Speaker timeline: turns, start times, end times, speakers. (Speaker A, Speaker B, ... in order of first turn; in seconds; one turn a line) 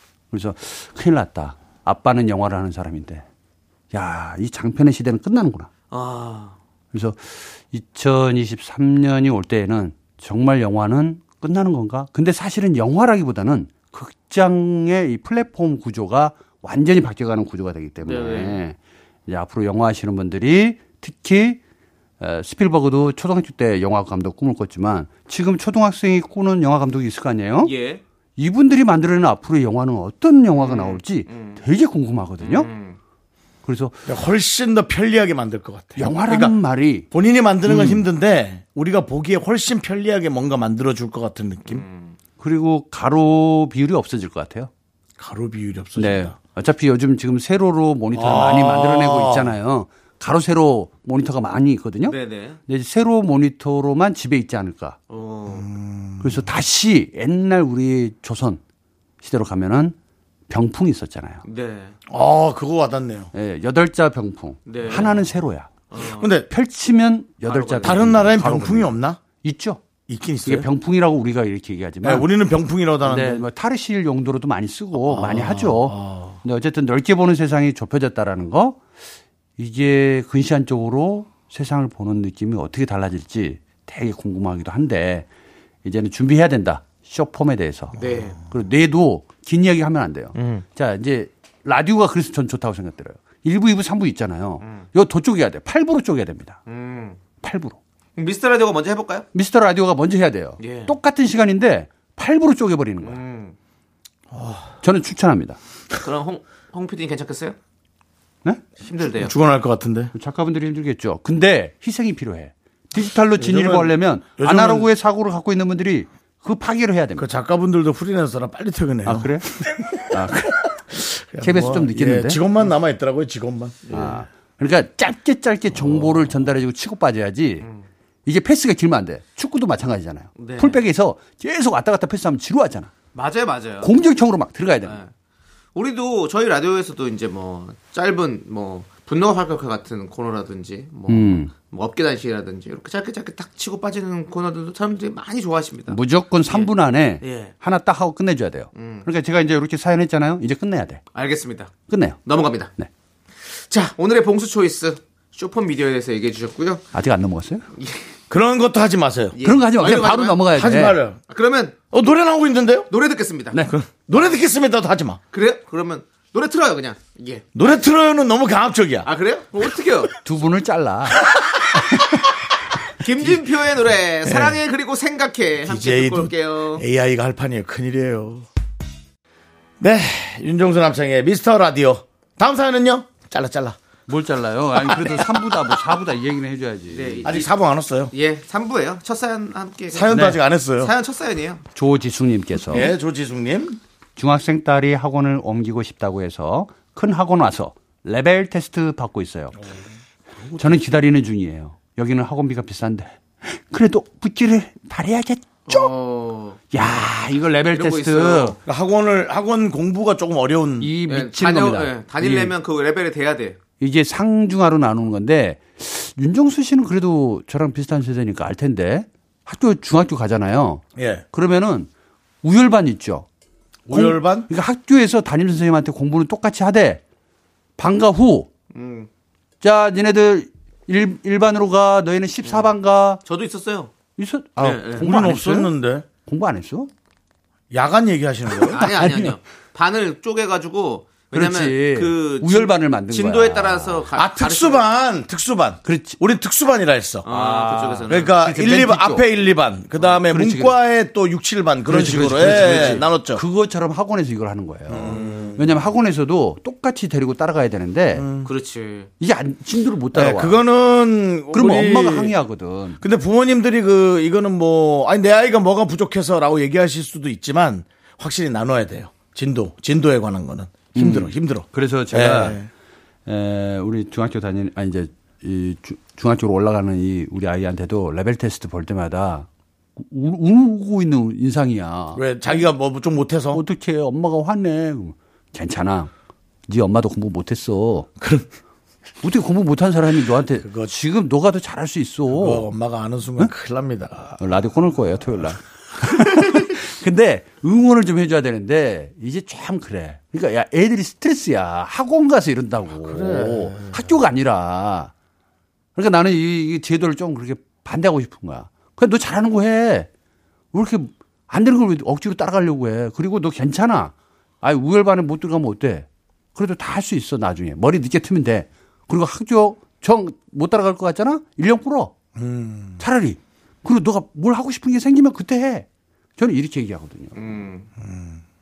Speaker A: 0.3-3.2
Speaker A: 3.9-5.7
Speaker B: 5.9-6.6
Speaker A: 6.9-21.6
Speaker B: 18.1-18.6
Speaker A: 22.2-27.8
Speaker B: 27.6-28.0
Speaker A: 28.4-32.7
Speaker B: 30.6-31.6
Speaker B: 32.4-33.0
Speaker A: 33.6-34.0
Speaker C: 34.1-36.5
Speaker A: 36.0-37.1
Speaker C: 37.1-41.9
Speaker A: 37.7-38.1
Speaker B: 41.7-42.1
Speaker A: 42.4-44.7
Speaker C: 45.2-46.4
Speaker A: 46.0-55.0
Speaker C: 48.1-49.5
Speaker B: 52.0-52.6
Speaker B: 55.1-55.7
Speaker C: 55.5-56.5
Speaker A: 56.2-58.6
Speaker A: 59.2-60.0
Speaker A: 60.5-61.4
Speaker B: 61.5-61.9
Speaker C: 62.1-63.3
Speaker A: 63.3-65.8
Speaker B: 64.7-65.2
Speaker B: 65.9-66.3
Speaker C: 66.1-66.5
Speaker A: 66.4-69.8
Speaker B: 67.5-68.0
Speaker C: 67.8-69.2
Speaker C: 70.1-70.7
Speaker A: 70.5-72.3
Speaker C: 72.0-73.5
Speaker A: 73.0-78.8
Speaker C: 75.1-76.4
Speaker A: 79.6-85.3
Speaker A: 85.8-96.6
Speaker B: 88.0-88.4
Speaker B: 90.3-90.6
Speaker B: 94.6-94.9
Speaker B: 96.7-97.2
Speaker A: 97.4-97.8
Speaker B: 98.2-99.3
Speaker A: 99.3-103.2
Speaker B: 100.6-101.0
Speaker B: 103.0-103.5
Speaker C: 104.3-104.7
Speaker A: 104.8-105.6
Speaker B: 106.0-107.6
Speaker B: 108.8-109.3
Speaker C: 109.2-110.1
Speaker A: 110.1-117.3
Speaker C: 113.4-114.9
Speaker C: 117.2-120.2
Speaker A: 119.0-120.7
Speaker C: 121.1-124.1
Speaker A: 121.4-122.4
Speaker A: 123.9-127.7
Speaker C: 125.8-126.2
Speaker A: 128.3-132.9
Speaker B: 130.4-130.8
Speaker B: 133.2-133.9
Speaker A: 133.8-135.0
Speaker B: 134.8-135.1
Speaker B: 135.8-146.0
Speaker A: 141.1-141.6
Speaker A: 145.9-151.0
Speaker B: 146.5-147.5
Speaker B: 148.8-149.1
Speaker B: 151.1-151.7
Speaker A: 151.9-152.2
Speaker B: 152.2-152.7
Speaker B: 153.4-156.8
Speaker A: 156.9-157.7
Speaker B: 157.8-158.0
Speaker C: 158.3-159.4
Speaker B: 159.3-160.5
Speaker A: 159.4-161.0
Speaker C: 160.5-161.2
Speaker B: 161.3-161.7
Speaker C: 161.9-162.9
Speaker B: 162.9-163.6
Speaker C: 163.7-165.2
Speaker B: 165.3-167.5
Speaker C: 167.6-169.1
Speaker B: 169.1-170.1
Speaker A: 170.2-171.3
Speaker B: 173.0-176.8
Speaker C: 174.2-174.6
Speaker C: 175.6-178.5
Speaker C: 179.8-183.8
Speaker A: 184.1-187.4
Speaker B: 186.9-187.5
Speaker C: 187.2-188.1
Speaker B: 188.1-190.2
Speaker C: 189.9-190.9
Speaker A: 190.1-190.4
Speaker B: 190.8-191.6
Speaker A: 191.8-192.9
Speaker C: 192.7-193.8
Speaker A: 194.2-199.6
Speaker C: 200.4-200.9
Speaker A: 200.6-205.9
Speaker B: 205.7-206.6
Speaker A: 206.7-208.6
Speaker B: 207.7-208.6
Speaker C: 208.7-210.9
Speaker A: 210.8-212.6
Speaker B: 211.1-213.6
Speaker A: 213.8-221.9
Speaker C: 221.0-221.2
Speaker A: 222.4-223.3
Speaker C: 223.9-224.5
Speaker A: 223.9-227.0
Speaker A: 227.8-228.5
Speaker B: 228.7-229.1
Speaker A: 229.6-233.2
Speaker B: 233.3-233.9
Speaker A: 234.2-236.9
Speaker B: 234.6-235.1
Speaker C: 234.7-236.1
Speaker C: 237.7-238.8
Speaker A: 238.6-239.4
Speaker B: 238.7-244.9
Speaker A: 241.3-244.1
Speaker C: 244.1-247.3
Speaker A: 245.8-246.2
Speaker B: 247.2-248.3
Speaker A: 247.3-249.2
Speaker C: 248.1-253.4
Speaker A: 250.1-250.8
Speaker A: 251.8-258.3
Speaker C: 254.9-255.7
Speaker C: 258.1-258.5
Speaker B: 258.4-259.1
Speaker A: 259.2-260.6
Speaker C: 260.1-262.4
Speaker A: 261.5-263.0
Speaker C: 263.0-272.7
Speaker A: 270.9-272.6
Speaker A: 273.3-282.2
Speaker C: 282.1-283.6
Speaker A: 283.5-286.1
Speaker A: 286.7-288.1
Speaker C: 288.2-288.5
Speaker A: 289.2-292.7
Speaker C: 290.6-290.9
Speaker C: 292.3-294.4
Speaker A: 294.4-305.1
Speaker C: 303.0-304.1
Speaker A: 306.0-310.1
Speaker A: 310.7-322.1
Speaker C: 322.4-323.0
Speaker A: 323.0-327.3
Speaker B: 327.3-327.9
Speaker C: 328.0-328.4